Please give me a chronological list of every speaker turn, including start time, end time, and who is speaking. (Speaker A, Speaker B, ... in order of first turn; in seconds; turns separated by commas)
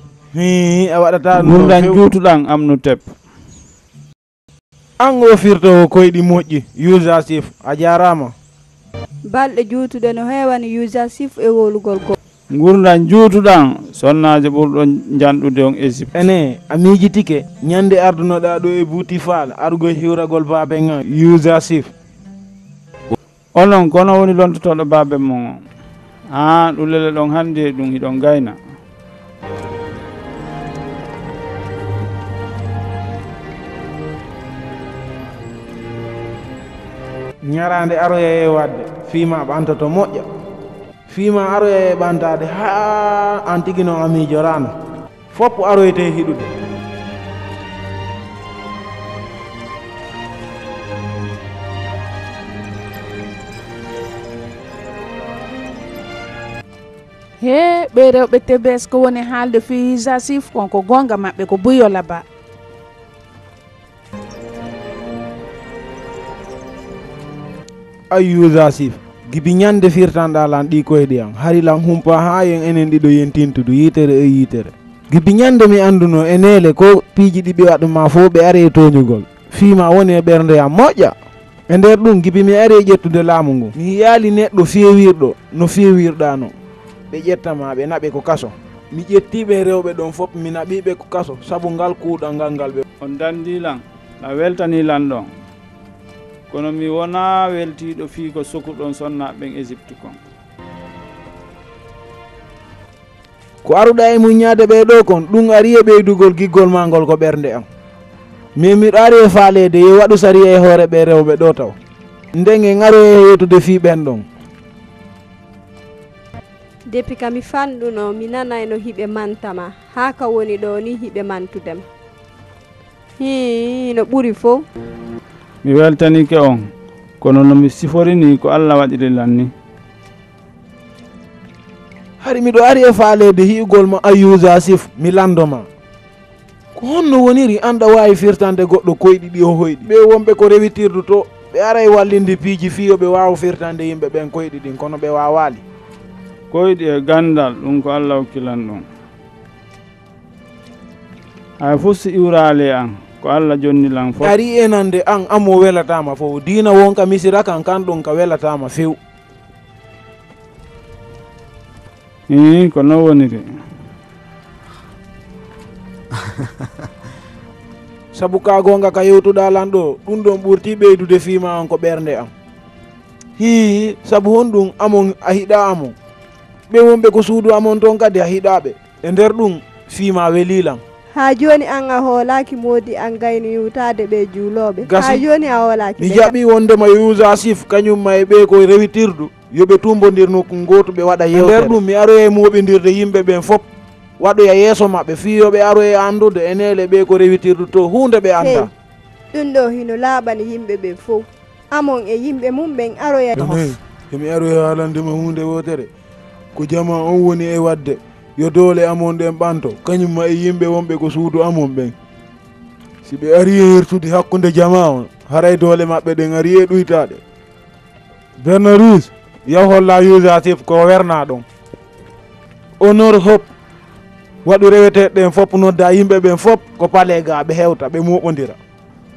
Speaker A: 0.3-2.0, Speaker B: 1.3-3.0, Speaker A: 5.0-8.3, Speaker C: 9.3-12.2, Speaker B: 12.5-16.1, Speaker A: 16.1-21.9, Speaker B: 23.6-25.6, Speaker B: 26.3-28.6, Speaker A: 37.4-40.3, Speaker A: 41.1-44.7, Speaker A: 45.3-46.5, Speaker D: 57.4-62.2, Speaker A: 68.1-81.2, Speaker A: 81.7-86.5, Speaker A: 87.1-92.8, Speaker B: 93.0-95.3, Speaker B: 96.5-100.2, Speaker A: 103.7-107.7, Speaker A: 108.6-111.8, Speaker A: 112.3-114.2, Speaker C: 116.9-121.8, Speaker C: 123.2-124.6, Speaker B: 125.6-126.7, Speaker B: 127.2-129.5, Speaker A: 132.2-135.7, Speaker A: 136.8-145.6, Speaker B: 146.5-148.8, Speaker B: 151.6-154.3, Speaker A: 154.2-159.0, Speaker B: 162.3-163.5, Speaker A: 168.1-172.3, Speaker A: 173.4-175.9, Speaker A: 176.7-180.8, Speaker C: 181.1-186.3, Speaker A: 184.8-185.2, Speaker A: 186.0-193.6, Speaker A: 194.2-198.7, Speaker C: 198.4-198.7, Speaker C: 199.3-203.6, Speaker A: 203.3-205.9, Speaker A: 206.6-211.9, Speaker A: 213.1-217.2, Speaker A: 218.4-221.4, Speaker A: 222.8-223.5, Speaker A: 224.4-228.6